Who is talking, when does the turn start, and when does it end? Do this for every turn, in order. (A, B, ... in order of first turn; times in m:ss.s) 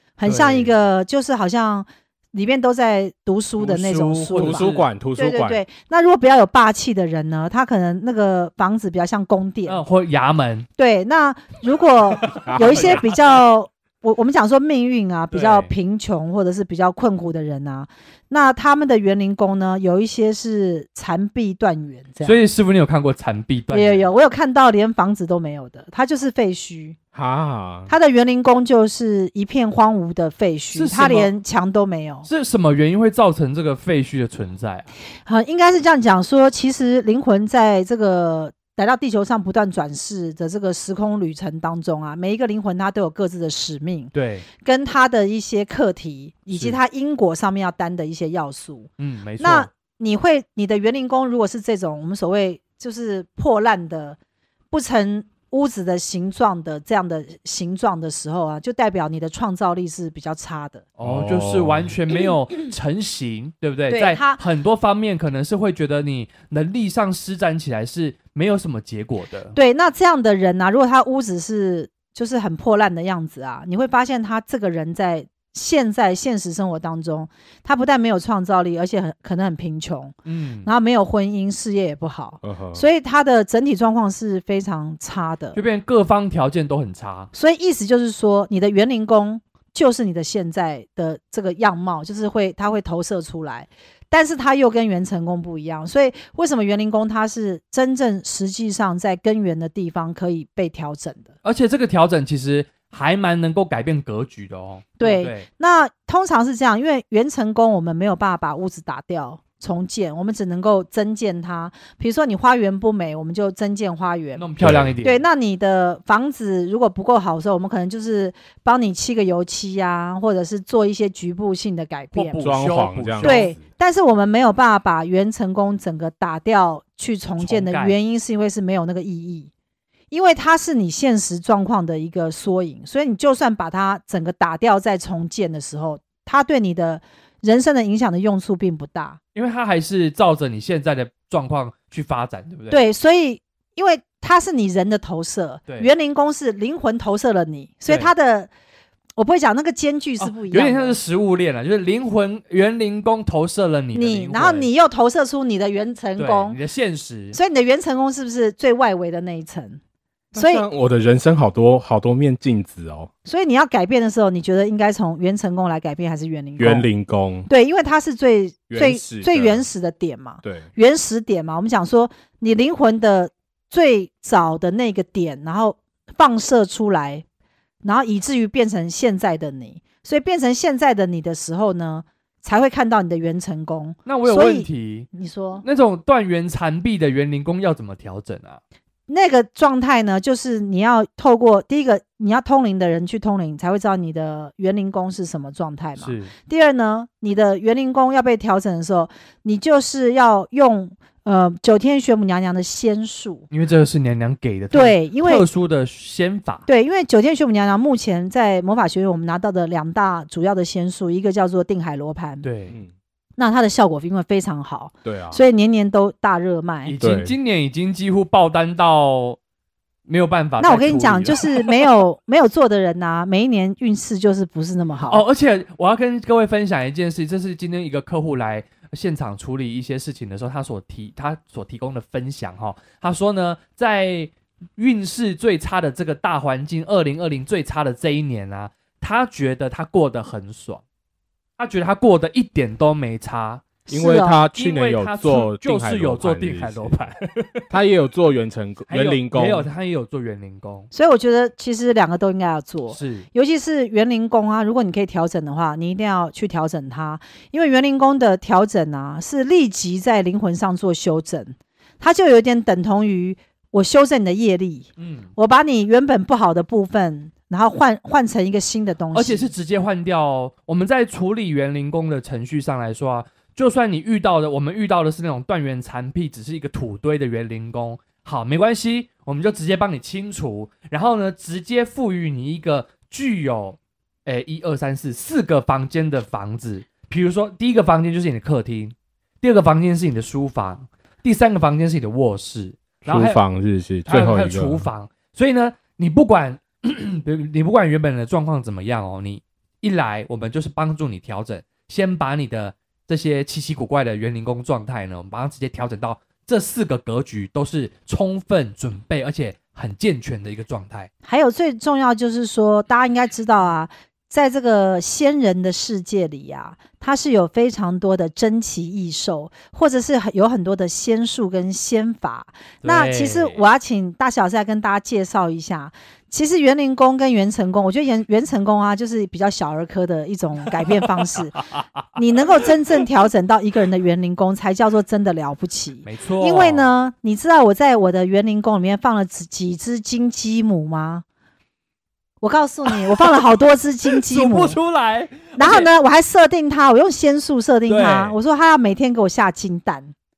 0:00.2-0:09.8 A
0:00.2-0:00.8 B
0:03.6-0:04.9 B
0:04.4-0:05.6 C
0:09.7-0:10.7 B
0:10.8-0:22.4 A
0:12.2-0:13.1 B
0:12.5-0:13.0 C
0:15.3-0:15.7 B
0:22.2-0:24.1 B
0:23.7-0:27.0 A
0:27.2-0:27.9 C
0:27.9-0:32.3 A
0:30.8-0:31.3 B
0:32.3-0:34.9 B
0:35.3-0:54.2 A
0:44.1-0:44.5 B
0:49.0-0:49.7 B
0:54.7-1:00.8 A
1:01.0-1:09.6 B
1:01.0-1:01.9 C
1:03.9-1:04.4 A
1:09.6-1:25.6 A
1:20.3-1:20.7 B
1:22.4-1:22.8 C
1:25.5-1:27.3 B
1:27.3-1:41.3 A
1:41.4-1:45.5 B
1:45.0-1:54.4 A
1:54.4-1:55.2 B
1:54.6-1:55.0 C
1:55.0-2:02.4 A
2:02.1-2:03.5 B
2:02.4-2:03.6 C
2:03.2-2:09.5 A
2:07.4-2:08.0 B
2:10.1-2:19.2 A
2:19.4-2:22.8 B
2:22.7-2:28.5 A
2:29.2-2:31.0 A
2:30.2-2:34.7 B
2:34.0-2:36.6 A
2:36.2-2:37.4 B
2:37.3-2:39.8 A
2:40.3-2:43.1 C
2:40.4-2:40.7 A
2:43.3-2:46.9 A
2:46.6-2:47.5 C
2:47.5-2:57.2 A
2:48.7-2:49.7 C
2:57.8-3:05.6 A
3:04.1-3:05.1 B
3:05.6-3:08.6 B
3:09.1-3:23.5 A
3:16.0-3:16.3 B
3:23.5-3:26.6 B
3:24.7-3:25.5 A
3:26.7-3:32.4 A
3:32.4-3:32.8 B
3:33.4-3:36.9 A
3:35.0-3:35.4 C
3:36.8-3:39.4 B
3:37.0-3:37.3 C
3:40.1-3:41.7 B
3:40.6-3:45.2 A
3:45.1-4:00.8 B
4:01.6-4:03.8 B
4:03.9-4:04.4 A
4:03.9-4:06.9 C
4:04.5-4:07.7 B
4:07.7-4:09.7 C
4:08.9-4:10.9 B
4:10.9-4:29.5 A
4:12.9-4:13.3 B
4:25.0-4:25.3 B
4:29.1-4:53.4 B
4:53.1-4:54.9 C
4:54.1-5:11.1 B
5:11.2-5:31.6 A
5:22.8-5:23.6 B
5:32.2-5:41.2 A
5:36.0-5:36.9 B
5:42.4-5:44.8 A
5:42.9-5:43.3 B
5:44.1-5:45.9 B
5:45.6-5:50.1 A
5:47.9-5:48.4 B